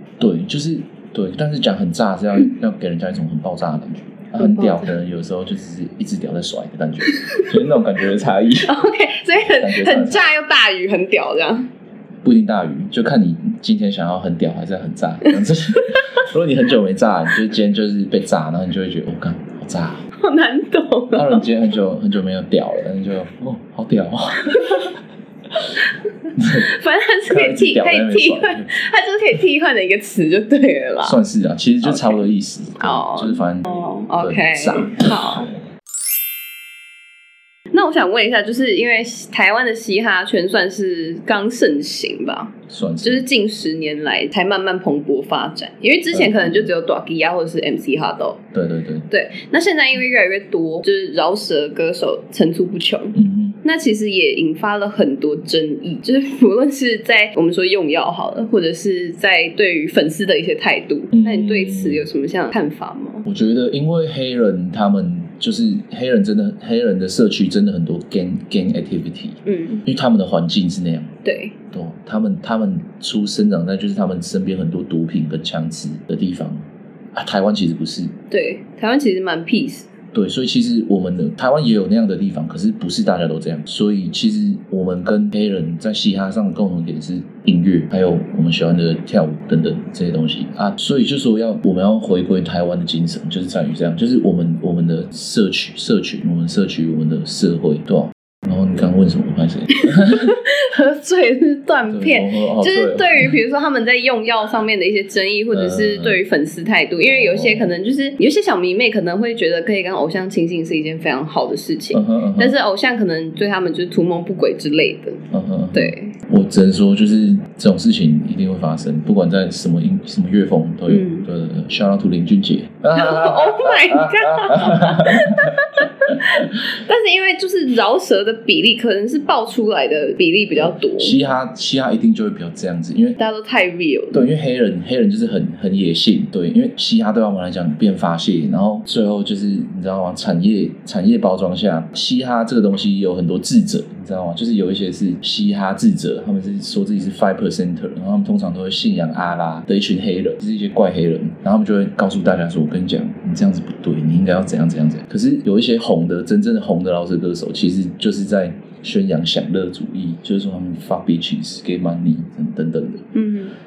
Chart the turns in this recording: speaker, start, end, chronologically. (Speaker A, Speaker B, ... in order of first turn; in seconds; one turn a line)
Speaker A: 0.2-8.8
Speaker B: 4.3-4.9
Speaker B: 8.6-11.7
Speaker A: 9.4-10.3
Speaker A: 12.2-20.0
Speaker B: 20.2-21.4
Speaker A: 21.1-24.9
Speaker A: 26.4-26.7
Speaker B: 26.4-31.2
Speaker A: 27.3-28.7
Speaker A: 31.0-35.5
Speaker B: 31.8-32.2
Speaker B: 32.8-35.5
Speaker B: 37.7-48.4
Speaker A: 42.7-43.3
Speaker A: 46.1-46.7
Speaker A: 48.5-49.1
Speaker B: 49.1-63.2
Speaker A: 53.1-53.6
Speaker A: 61.1-62.1
Speaker A: 63.2-71.1
Speaker B: 69.5-69.8
Speaker B: 71.2-71.5
Speaker A: 71.7-76.6
Speaker A: 77.1-78.1
Speaker B: 78.3-79.9
Speaker A: 80.1-100.2
Speaker B: 99.8-115.2
Speaker A: 101.9-103.3
Speaker A: 105.5-106.2
Speaker A: 107.0-107.7
Speaker A: 111.9-112.5
Speaker A: 115.3-125.5
Speaker B: 115.7-116.1
Speaker B: 120.9-121.3
Speaker B: 122.9-131.2
Speaker A: 130.5-133.2
Speaker B: 133.2-134.3
Speaker A: 134.1-163.1
Speaker B: 163.1-163.5